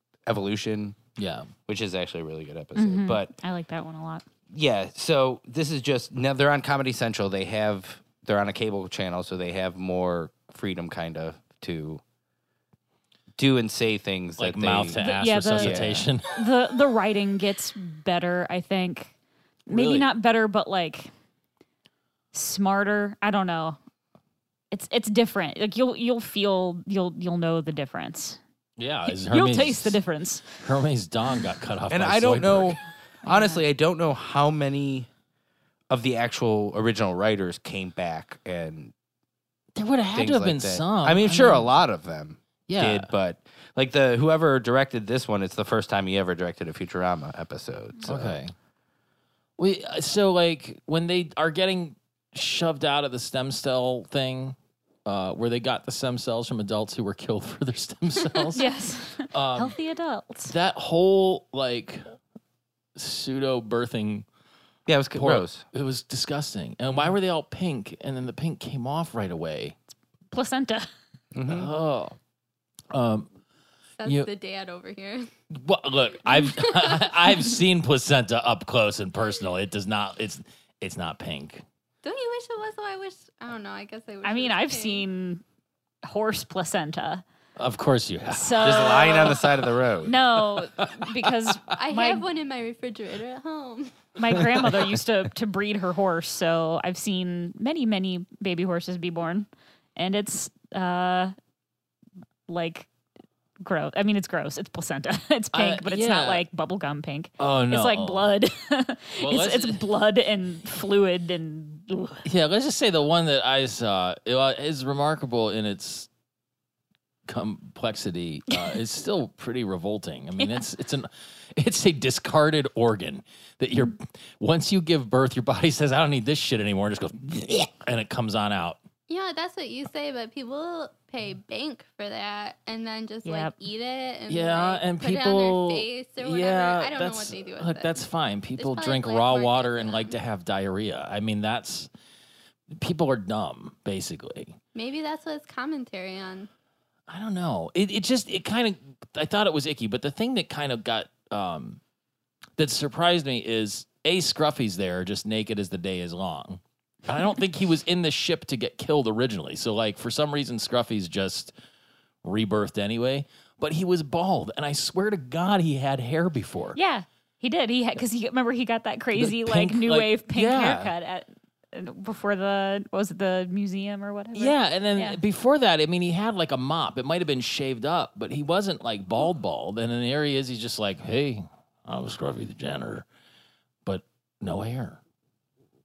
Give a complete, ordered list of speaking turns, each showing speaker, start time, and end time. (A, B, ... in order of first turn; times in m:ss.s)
0:00.2-0:01.0 A
0:01.2-0:01.5 B
0:01.7-0:03.3 A
0:02.8-0:04.2 C
0:04.5-0:12.0 A
0:13.4-0:15.0 A
0:14.4-0:16.4 B
0:15.0-0:19.1 C
0:15.6-0:16.1 A
0:19.7-0:21.1 C
0:19.7-0:20.1 B
0:22.3-0:23.8 C
0:24.7-0:28.4 C
0:28.8-0:30.0 B
0:29.0-0:30.6 C
0:30.6-0:32.8 B
0:31.9-0:35.1 A
0:33.2-0:33.6 C
0:35.9-0:38.9 A
0:39.7-0:41.7 B
0:40.1-0:48.4 A
0:42.7-0:43.1 B
0:48.0-0:48.5 B
0:49.6-0:58.7 B
0:58.5-1:00.5 C
0:59.2-0:59.7 B
1:00.5-1:02.0 B
1:02.9-1:04.2 B
1:04.9-1:05.6 A
1:05.1-1:09.8 B
1:10.3-1:10.9 C
1:11.3-1:11.7 A
1:11.4-1:12.2 B
1:12.9-1:13.3 B
1:14.0-1:15.3 D
1:15.5-1:21.6 B
1:16.4-1:17.4 D
1:22.0-1:25.0 D
1:24.2-1:25.4 C
1:26.0-1:27.2 C
1:27.6-1:29.5 B
1:28.3-1:29.4 C
1:28.6-1:30.2 A
1:30.0-1:32.2 C
1:31.7-1:34.0 D
1:34.2-1:41.3 C
1:42.5-1:42.9 C
1:43.6-1:52.2 C
1:45.5-1:46.4 B
1:47.4-1:48.3 B
1:49.2-1:49.8 B
1:52.2-1:56.1 B
1:57.2-2:08.8 B
2:09.1-2:18.0 D
2:13.2-2:13.5 C
2:14.3-2:21.9 B
2:18.6-2:20.2 D
2:22.7-2:24.6 B
2:24.7-2:26.5 D
2:27.1-2:31.8 B
2:32.6-2:41.5 B
2:42.2-2:46.8 B
2:46.7-2:55.2 C
2:49.1-2:50.9 B
2:54.3-3:03.0 B
3:03.8-3:05.0 B